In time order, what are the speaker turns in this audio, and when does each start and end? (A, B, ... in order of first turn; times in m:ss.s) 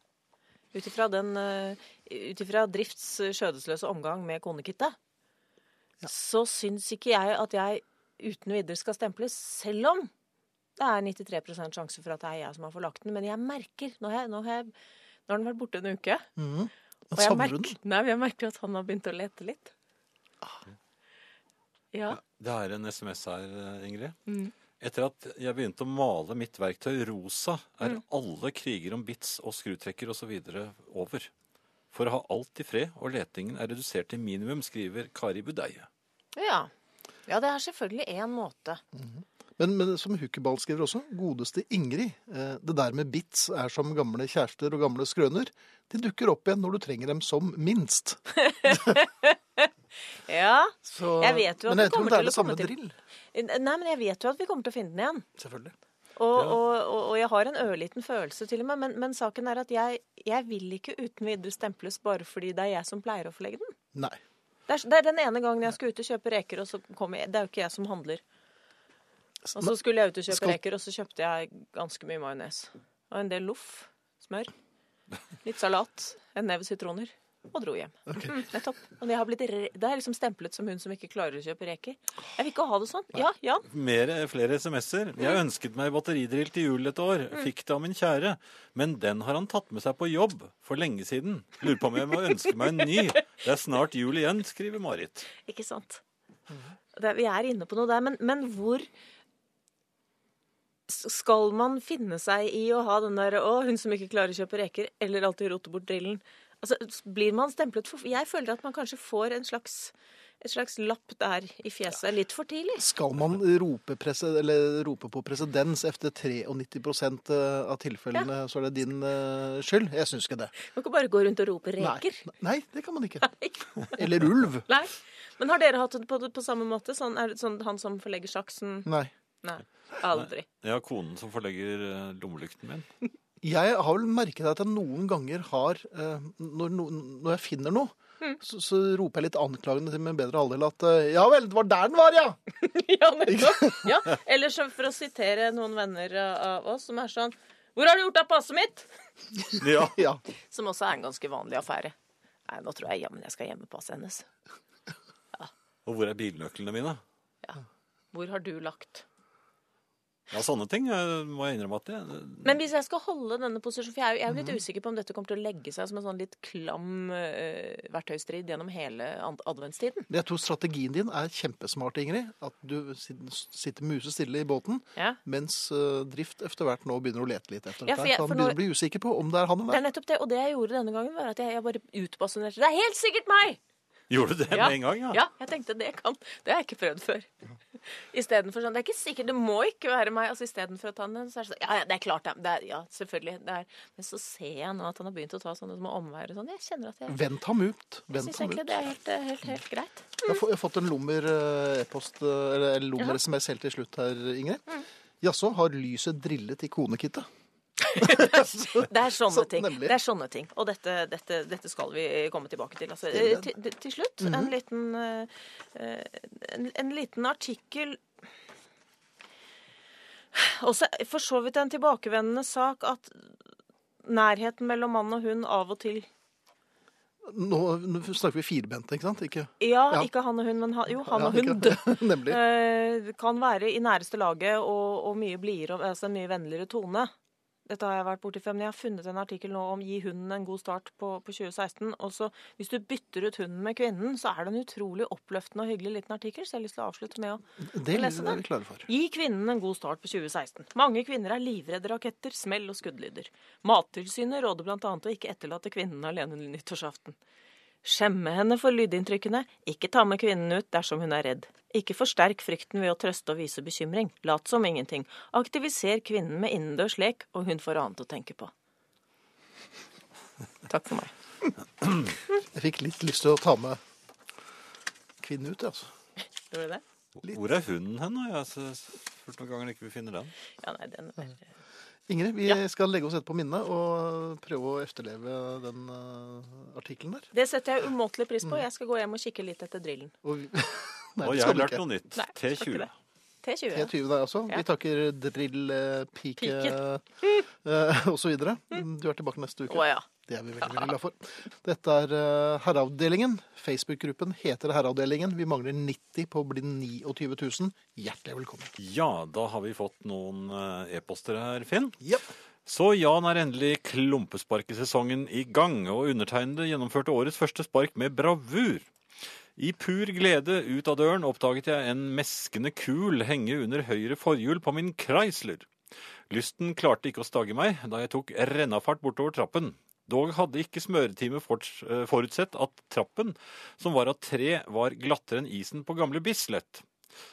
0:00.7-0:05.0 A
0:06.0-0:10.1 A
0:10.8-0:14.7 A
0:15.3-0:16.2 A
0:16.4-0:17.8 B
0:17.2-0:19.7 A
0:21.9-0:22.2 A
0:22.1-0:24.2 C
0:24.8-0:31.3 C
0:31.9-0:35.9 C
0:36.4-0:36.7 A
0:37.3-0:38.8 A
0:38.9-0:49.0 B
0:48.4-0:49.7 A
0:50.3-0:52.7 A
0:50.8-0:52.9 B
0:53.3-0:55.2 A
0:55.4-0:55.7 B
0:56.2-1:03.7 A
1:04.7-1:08.2 A
1:09.5-1:09.7 B
1:09.6-1:14.5 A
1:10.3-1:10.6 B
1:15.4-1:23.6 A
1:18.1-1:18.4 B
1:23.6-1:35.3 C
1:35.4-1:36.0 A
1:36.9-1:38.9 A
1:40.9-1:52.8 A
1:52.8-2:00.5 B
2:00.7-2:02.3 A
2:01.8-2:04.7 B
2:03.2-2:08.9 A
2:08.8-2:09.1 B
2:09.4-2:10.4 A
2:10.1-2:12.9 C
2:13.4-2:22.4 B
2:22.6-2:28.9 A
2:23.3-2:23.9 B
2:29.6-2:30.0 C
2:29.8-2:30.2 B
2:30.5-2:31.9 A
2:32.4-2:34.2 A
2:35.8-2:37.0 C
2:38.1-2:39.0 A
2:40.3-2:42.5 C
2:42.4-2:50.1 A
2:50.1-2:59.8 B
2:57.8-2:58.6 A
2:59.7-3:03.6 A
3:04.1-3:05.2 C
3:04.5-3:07.3 A
3:07.8-3:17.2 A
3:17.1-3:18.9 B
3:18.1-3:20.4 A
3:20.2-3:24.6 B
3:25.2-3:27.3 B
3:27.9-3:38.0 A
3:27.9-3:29.9 B
3:33.1-3:33.5 B
3:34.2-3:34.5 B
3:40.3-3:43.3 A
3:44.0-3:46.1 A
3:47.2-3:50.1 B
3:49.6-3:57.1 A
3:51.0-3:52.4 B
3:57.7-4:17.2 A
4:07.6-4:08.9 B
4:17.8-4:28.5 A
4:30.7-4:31.1 A
4:32.5-4:33.8 B
4:35.2-4:35.9 B
4:36.5-4:36.8 A
4:37.2-4:40.3 C
4:40.6-4:41.4 A
4:42.1-4:47.3 B
4:47.3-4:50.1 A
4:50.2-4:51.8 B
4:51.2-4:52.9 C
4:52.2-4:52.9 A
4:53.4-4:53.9 A
4:53.7-5:08.7 B
4:56.4-4:57.4 A
4:59.7-5:00.0 A
5:00.6-5:00.9 A
5:08.8-5:12.0 C
5:12.0-5:12.3 B
5:12.6-5:18.9 C
5:19.6-5:25.7 C
5:26.3-5:36.8 C